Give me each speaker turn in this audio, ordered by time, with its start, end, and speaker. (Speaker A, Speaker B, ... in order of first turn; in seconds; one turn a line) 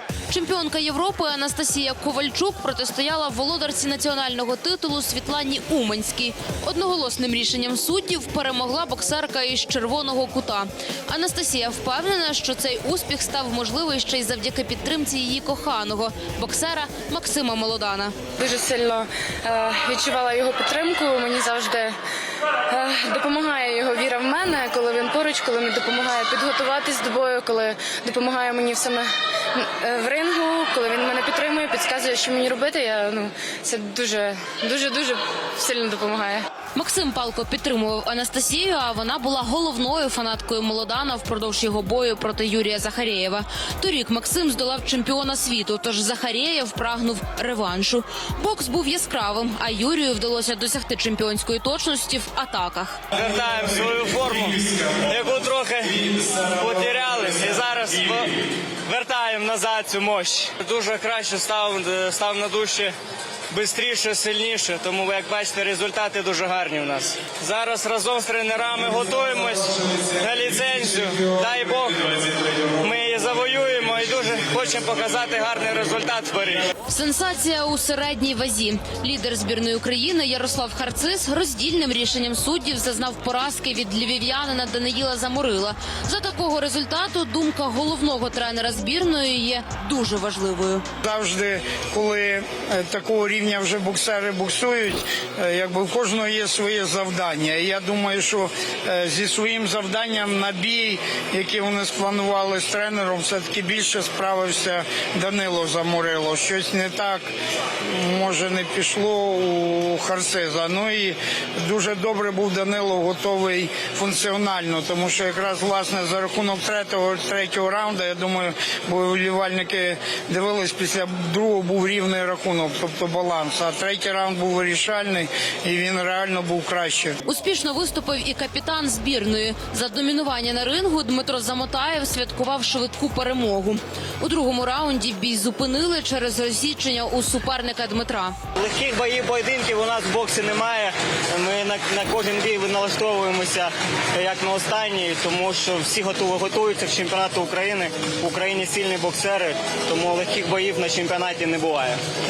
Speaker A: 0.3-18.1
Speaker B: 18.4-21.9
Speaker B: 22.7-36.4
Speaker A: 36.7-53.0
Speaker C: 53.1-58.3
Speaker C: 58.9-62.9
Speaker C: 63.5-72.0
Speaker C: 72.8-76.7
Speaker A: 76.9-90.8
Speaker D: 91.0-107.2
Speaker D: 107.9-127.2
Speaker A: 127.2-138.3
Speaker C: 138.6-152.0